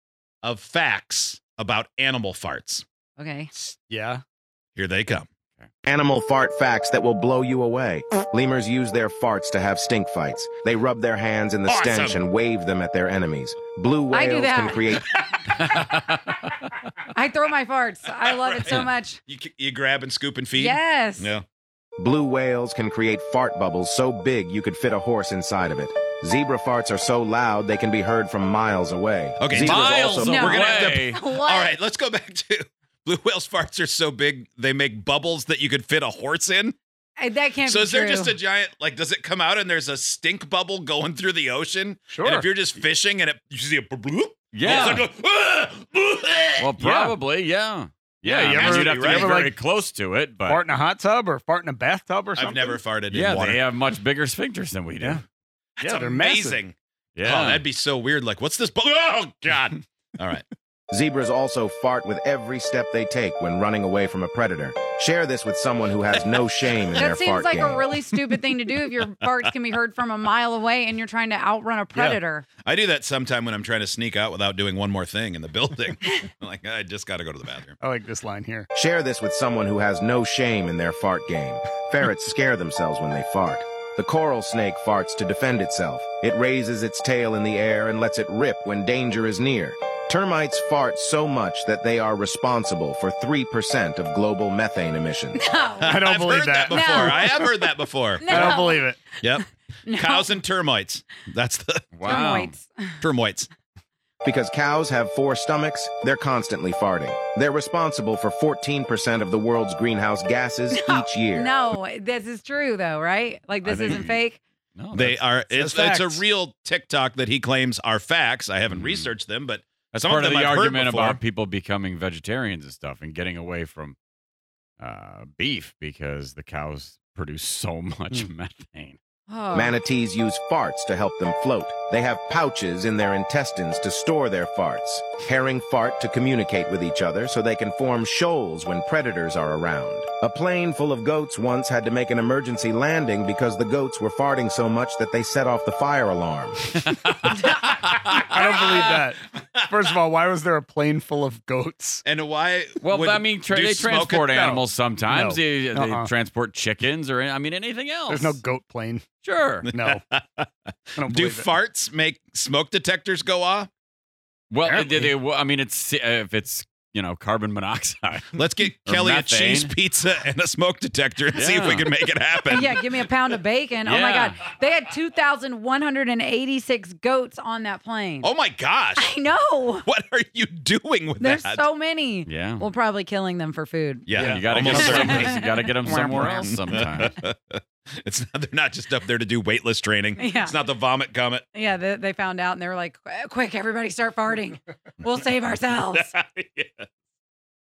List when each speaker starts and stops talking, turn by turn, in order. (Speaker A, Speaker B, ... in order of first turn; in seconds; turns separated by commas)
Speaker A: 0.4-2.8, Speaker B: 3.2-3.5, Speaker C: 3.7-4.2, Speaker A: 4.8-5.3, Speaker D: 5.8-15.2, Speaker A: 11.7-12.2, Speaker B: 14.1-14.8, Speaker E: 15.6-16.3, Speaker B: 17.1-19.2, Speaker A: 18.5-21.4, Speaker B: 20.5-21.3, Speaker D: 22.0-30.6, Speaker A: 29.4-36.8, Speaker E: 29.6-31.2, Speaker B: 30.2-31.7, Speaker B: 37.2-38.4, Speaker A: 37.6-46.7, Speaker C: 42.1-42.5, Speaker E: 44.5-45.1, Speaker E: 46.6-50.6, Speaker C: 46.8-47.1, Speaker C: 48.2-49.5, Speaker A: 48.5-49.4, Speaker C: 50.5-52.8, Speaker A: 52.4-53.7, Speaker E: 53.1-55.2, Speaker A: 55.8-60.5, Speaker C: 55.8-56.6, Speaker E: 57.2-57.6, Speaker D: 60.9-67.9, Speaker A: 66.3-67.0, Speaker B: 67.0-72.5, Speaker A: 68.7-69.4, Speaker A: 72.7-77.8, Speaker C: 77.8-78.7, Speaker D: 78.7-95.4, Speaker B: 95.4-96.0, Speaker A: 95.8-98.6, Speaker C: 95.9-97.3, Speaker B: 96.7-100.3, Speaker C: 98.3-99.0, Speaker A: 99.2-102.2, Speaker E: 101.9-102.5, Speaker B: 102.0-103.0, Speaker A: 103.0-103.5, Speaker D: 104.2-111.5, Speaker B: 110.7-114.4, Speaker E: 113.6-114.2, Speaker E: 114.8-115.4, Speaker A: 114.9-121.2, Speaker C: 115.5-116.2, Speaker E: 118.7-119.1, Speaker E: 119.9-124.0, Speaker E: 124.8-129.0, Speaker B: 129.3-129.8, Speaker D: 129.5-146.7, Speaker E: 146.9-147.3, Speaker A: 148.1-149.6, Speaker C: 148.1-152.0, Speaker A: 152.1-154.7, Speaker E: 152.8-158.4, Speaker C: 155.1-156.1, Speaker C: 158.1-159.1, Speaker E: 159.2-159.7, Speaker A: 159.7-163.7, Speaker C: 159.7-160.0, Speaker C: 161.0-161.5, Speaker E: 164.5-169.8, Speaker C: 164.6-165.1, Speaker A: 168.4-173.1, Speaker E: 171.4-171.9, Speaker B: 172.4-178.3, Speaker E: 173.8-174.4, Speaker A: 178.2-179.1, Speaker B: 179.0-179.9, Speaker A: 179.8-181.6, Speaker B: 181.2-186.6, Speaker E: 182.3-182.7, Speaker A: 184.1-185.4, Speaker C: 184.2-184.9, Speaker E: 184.2-187.1, Speaker A: 186.4-191.4, Speaker B: 190.2-190.6, Speaker B: 191.5-196.1, Speaker A: 195.9-196.9